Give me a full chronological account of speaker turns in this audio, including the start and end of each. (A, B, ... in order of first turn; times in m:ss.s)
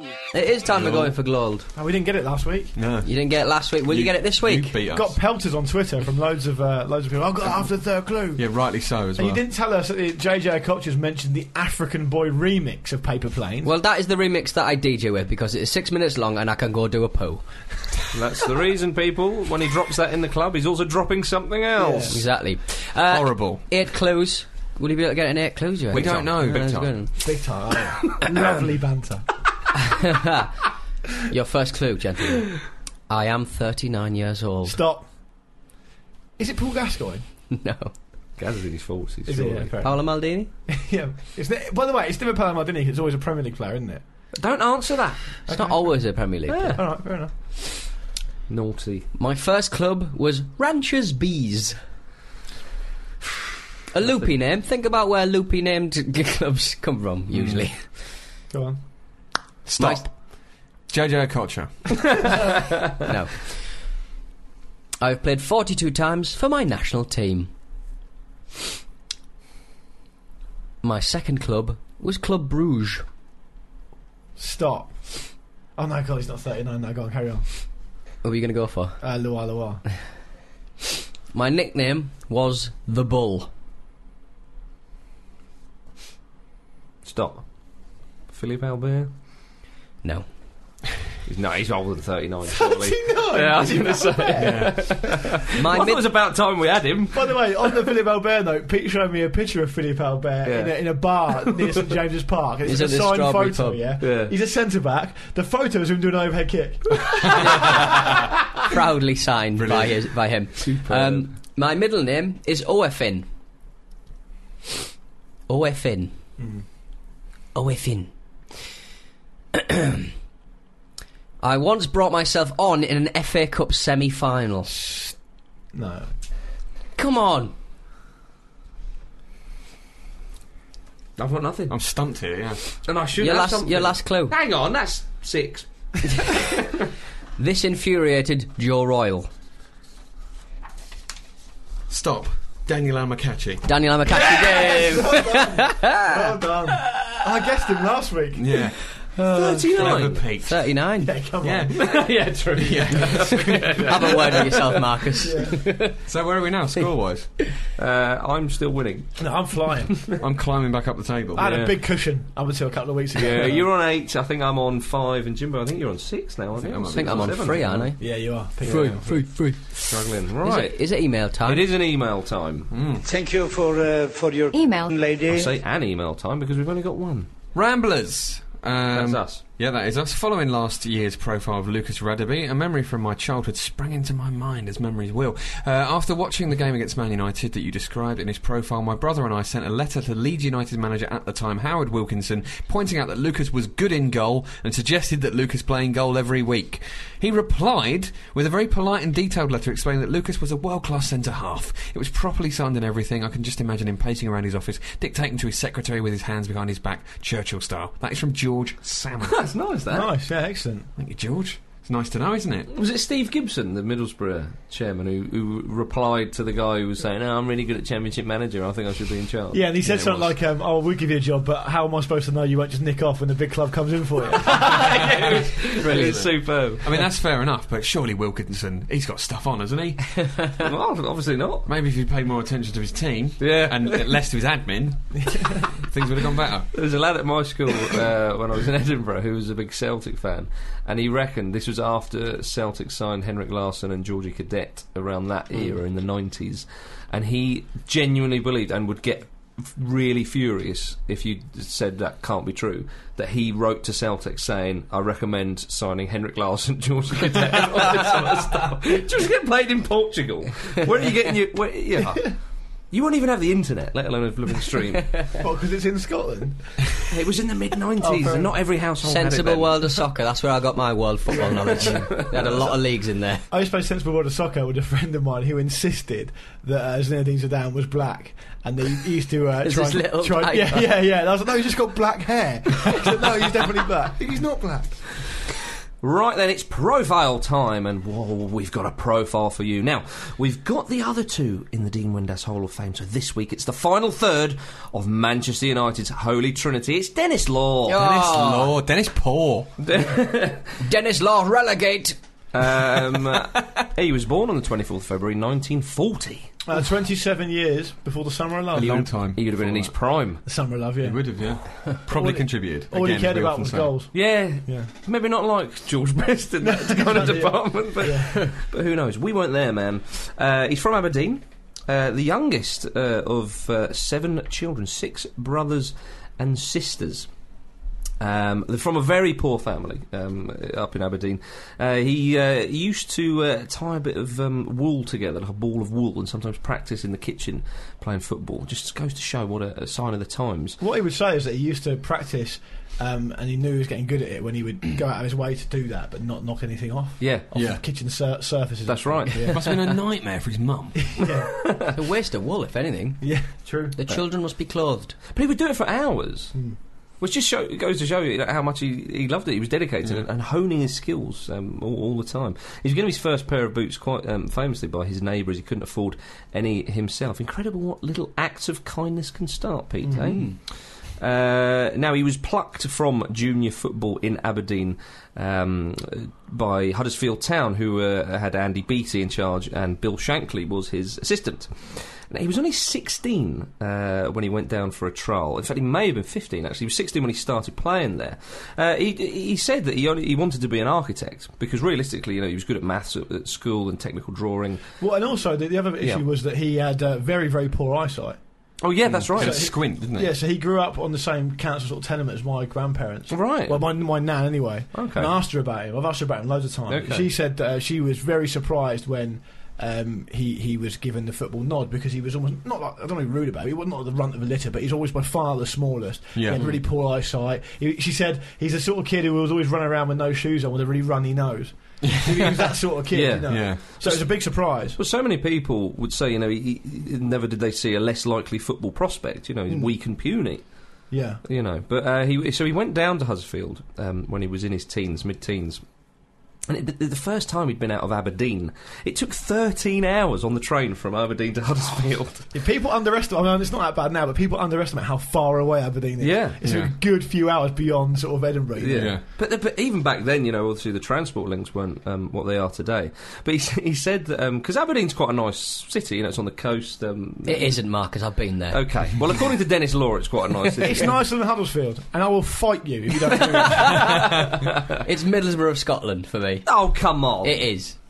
0:00.3-0:01.7 A
0:00.6-0:01.2 B
0:01.7-0:02.8 C
0:02.8-0:03.1 B
0:03.0-0:04.7 A
0:03.8-0:05.2 B
0:04.9-0:13.7 C
0:08.4-0:09.4 B
0:13.6-0:17.5 A
0:18.1-0:22.2 D
0:21.8-0:22.2 C
0:22.0-0:27.2 A
0:23.0-0:23.6 B
0:25.9-0:27.0 B
0:27.2-0:29.4 C
0:30.0-0:30.5 A
0:31.3-0:34.8 A
0:34.6-0:35.1 C
0:36.4-0:37.2 C
0:37.5-0:37.9 A
0:38.4-0:39.7 D
0:39.3-0:44.0 C
0:39.8-0:40.5 A
0:44.4-0:45.3 D
0:45.5-0:46.8 A
0:45.5-0:46.1 C
0:46.5-0:46.8 D
0:46.7-0:47.3 C
0:48.5-0:49.1 D
0:49.1-0:51.8 A
0:53.9-0:58.0 A
0:57.3-0:57.7 B
0:58.5-0:58.8 C
0:59.6-1:02.2 B
0:59.8-1:00.1 A
1:03.1-1:03.7 A
1:05.0-1:07.5 A
1:10.8-1:13.0 A
1:14.4-1:17.4 C
1:18.2-1:19.0 A
1:19.0-1:19.8 C
1:21.3-1:23.5 A
1:27.0-1:27.4 D
1:28.3-1:29.1 D
1:31.2-1:37.4 D
1:32.5-1:34.8 C
1:34.4-1:35.0 B
1:35.6-1:36.0 A
1:37.1-1:47.7 C
1:40.4-1:41.5 D
1:42.6-1:43.8 A
1:44.0-1:44.3 D
1:47.4-1:48.0 A
1:48.7-1:53.3 A
1:49.6-1:50.1 B
1:50.8-1:51.3 D
1:55.5-1:56.1 A
1:56.4-1:56.6 C
1:57.6-1:58.1 A
1:59.5-2:00.1 A
2:01.4-2:04.7 A
2:04.7-2:05.1 C
2:05.7-2:06.1 C
2:07.0-2:07.5 A
2:11.2-2:11.8 D
2:11.7-2:12.6 B
2:12.8-2:16.4 D
2:13.2-2:14.3 A
2:17.4-2:19.3 A
2:21.9-2:23.7 B
2:23.7-2:26.1 A
2:24.2-2:30.1 C
2:28.3-2:28.8 B
2:29.3-2:30.2 D
2:29.7-2:30.8 B
2:30.4-2:31.1 A
2:31.0-2:31.9 C
2:31.4-2:34.5 B
2:31.7-2:34.6 D
2:33.9-2:35.9 A
2:35.2-2:35.6 C
2:36.0-2:37.3 B
2:37.8-2:39.3 D
2:39.2-2:40.1 C
2:40.2-2:41.6 B
2:41.3-2:43.7 C
2:41.4-2:41.7 D
2:43.1-2:47.9 D
2:46.6-2:47.9 B
2:47.0-2:51.6 A
2:48.0-2:49.3 C
2:49.8-2:52.7 D
2:52.7-2:53.1 B
2:53.0-2:55.5 E
2:55.3-2:57.3 D
2:57.5-3:29.5 B
2:58.9-2:59.4 D
3:29.2-3:30.1 D
3:29.9-3:30.9 C
3:31.0-3:32.7 B
3:32.7-3:39.7 D
3:39.5-3:45.1 C
3:39.8-3:40.3 B
3:44.4-3:46.9 D
3:44.9-3:50.2 B
3:45.8-3:46.1 A
3:50.6-3:51.7 D
3:51.7-3:56.7 B
3:53.4-3:54.1 D
3:56.7-4:22.4 D
4:22.9-4:25.2 D
4:25.4-4:26.8 C
4:27.1-4:29.8 D
4:28.0-4:28.5 C
4:29.0-4:33.4 A
4:33.5-4:45.2 C
4:39.6-4:40.9 A
4:46.0-4:58.1 D
4:57.9-4:58.7 A
4:57.9-4:59.7 B
4:59.8-5:00.7 D
5:00.8-5:02.2 A
5:02.5-5:06.5 D
5:06.7-5:09.3 C
5:08.7-5:10.0 B
5:09.3-5:10.4 D
5:10.4-5:14.9 C
5:11.0-5:13.9 B
5:14.1-5:27.3 D
5:16.6-5:18.4 C
5:28.2-5:40.8 D
5:40.8-5:49.8 C
5:47.5-5:47.8 B
5:48.9-5:49.7 D
5:49.4-5:51.2 B
5:51.1-5:51.5 C
5:51.9-5:55.2 A
5:53.2-5:54.0 C
5:55.3-5:56.6 D
5:57.2-6:10.6 D
6:10.1-6:10.3 C
6:10.2-6:10.6 A
6:11.2-6:35.0 D
6:35.0-6:38.4 C
6:38.8-6:39.7 D
6:39.0-6:40.3 B
6:39.4-7:05.0 C
6:43.3-6:43.9 D
6:44.9-6:45.3 D
6:46.9-6:47.3 D
6:56.3-6:56.7 B
7:02.0-7:02.7 B
7:03.1-7:10.7 D
7:03.4-7:03.8 B
7:11.1-7:11.4 C
7:11.4-7:15.8 D
7:16.7-7:22.5 D
7:22.5-7:29.2 C
7:26.2-7:26.7 D
7:26.6-7:27.0 B
7:28.8-7:37.8 D
7:28.9-7:29.2 B
7:37.4-7:39.1 A
7:38.7-7:41.2 D
7:40.8-7:44.4 C
7:45.0-7:48.0 A
7:46.7-7:48.0 D